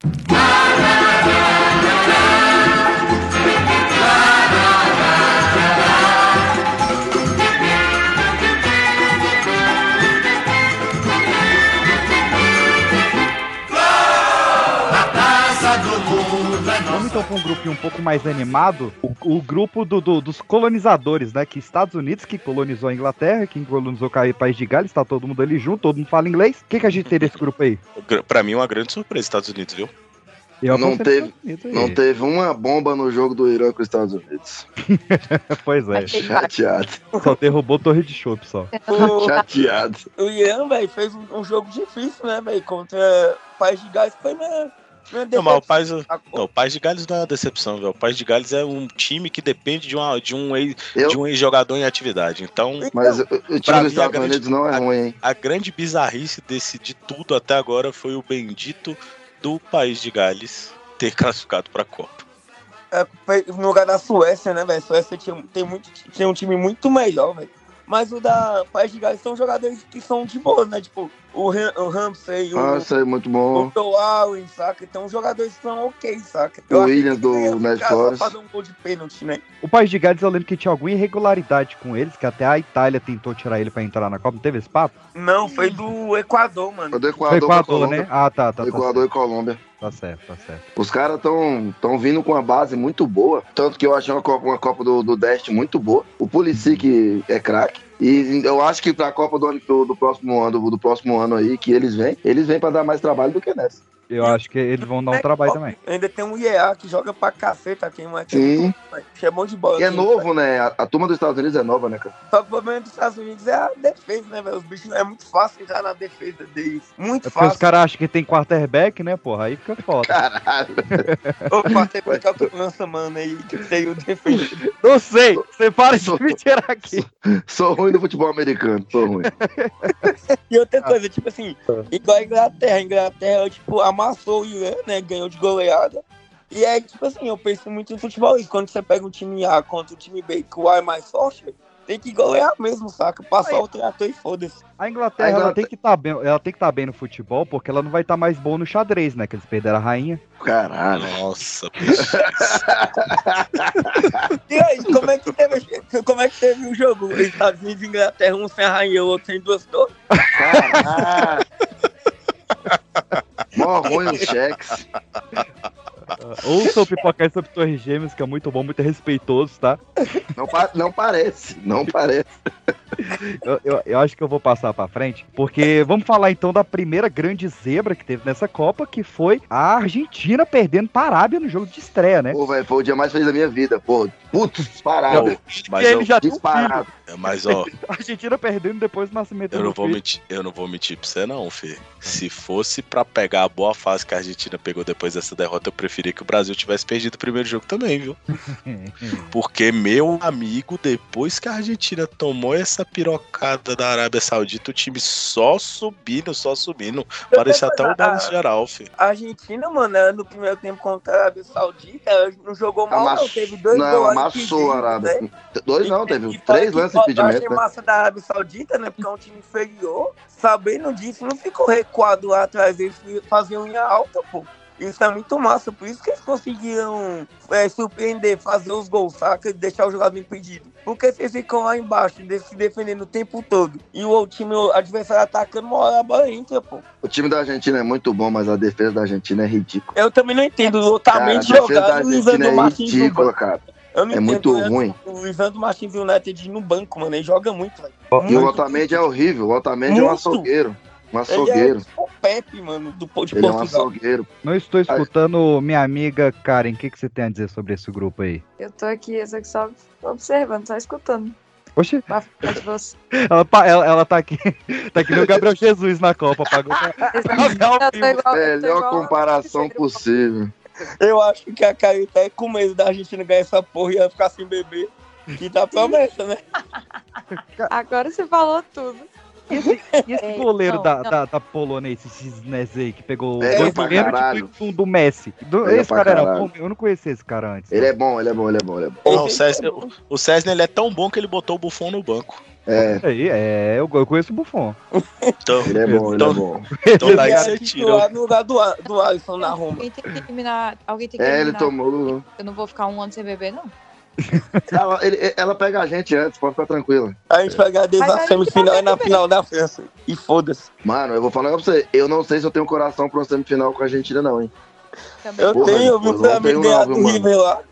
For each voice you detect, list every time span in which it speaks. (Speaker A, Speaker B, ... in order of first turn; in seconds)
Speaker A: 16.9-27.8, 30.6-32.0, 34.9-36.2, 37.2-38.8, 79.6-84.9, 87.3-89.1, 89.8-90.6, 96.5-96.8, 104.1-105.7, 117.2-120.2, 121.0-121.4, 124.8-127.0, 129.3-130.1, 144.8-150.2, 166.2-169.8, 173.4-182.4, 185.1-186.9, 187.5-190.0, 198.4-199.3, 248.1-248.5, 254.4-258.4, 261.8-262.1, 263.2-268.2, 277.3-277.7, 279.5-287.9, 292.8-294.8, 295.8-297.5, 304.2-304.6
Speaker B: 27.0-27.4, 27.9-29.9, 39.5-39.8, 45.3-52.9, 53.6-62.2, 150.9-152.7, 162.7-163.2, 185.1-186.1, 187.1-187.7, 189.5-198.2, 199.3-208.9, 289.1-292.4, 295.4-296.4, 297.0-298.1
Speaker C: 30.7-34.6, 36.1-37.0, 39.0-40.0, 50.9-51.2, 52.9-55.1, 72.5-73.7, 76.7-78.3, 86.9-88.1, 88.6-89.6, 90.8-103.8, 108.3-108.7, 109.8-112.1, 120.0-121.0, 125.3-126.3, 126.9-129.3, 145.2-145.7, 150.4-151.2, 151.9-154.3, 160.3-161.4, 163.5-164.8, 170.3-172.3, 182.3-185.4, 186.2-186.8, 212.9-217.6, 237.0-239.9, 241.1-244.9, 248.2-251.8, 253.3-254.3, 265.1-265.4, 268.3-270.5, 283.4-284.5, 285.6-286.5, 287.7-289.3, 292.6-293.0, 295.6-296.7, 301.2-302.2, 304.7-307.1, 310.8-314.5, 315.5-317.3
Speaker D: 35.9-36.5, 38.7-39.3, 240.6-240.9, 258.6-261.4, 262.1-262.9, 267.1-270.1, 275.7-276.0, 277.7-279.1, 280.2-281.1, 299.4-301.7, 302.4-303.7, 308.0-309.2, 315.2-316.1
Speaker E: 37.1-37.4, 38.9-39.3, 40.2-46.5, 52.8-53.2, 62.9-72.9, 73.5-79.4, 85.1-87.0, 105.1-110.2, 112.3-117.6, 121.5-124.6, 130.1-144.6, 154.5-159.9, 163.8-164.3, 207.3-208.3, 209.0-215.2, 215.8-236.8, 239.9-243.3, 243.9-249.0, 249.9-250.5, 251.3-253.9, 271.0-276.4, 283.5-284.4, 289.0-289.9, 294.9-295.3, 297.0-299.8, 307.3-310.7, 315.4-317.6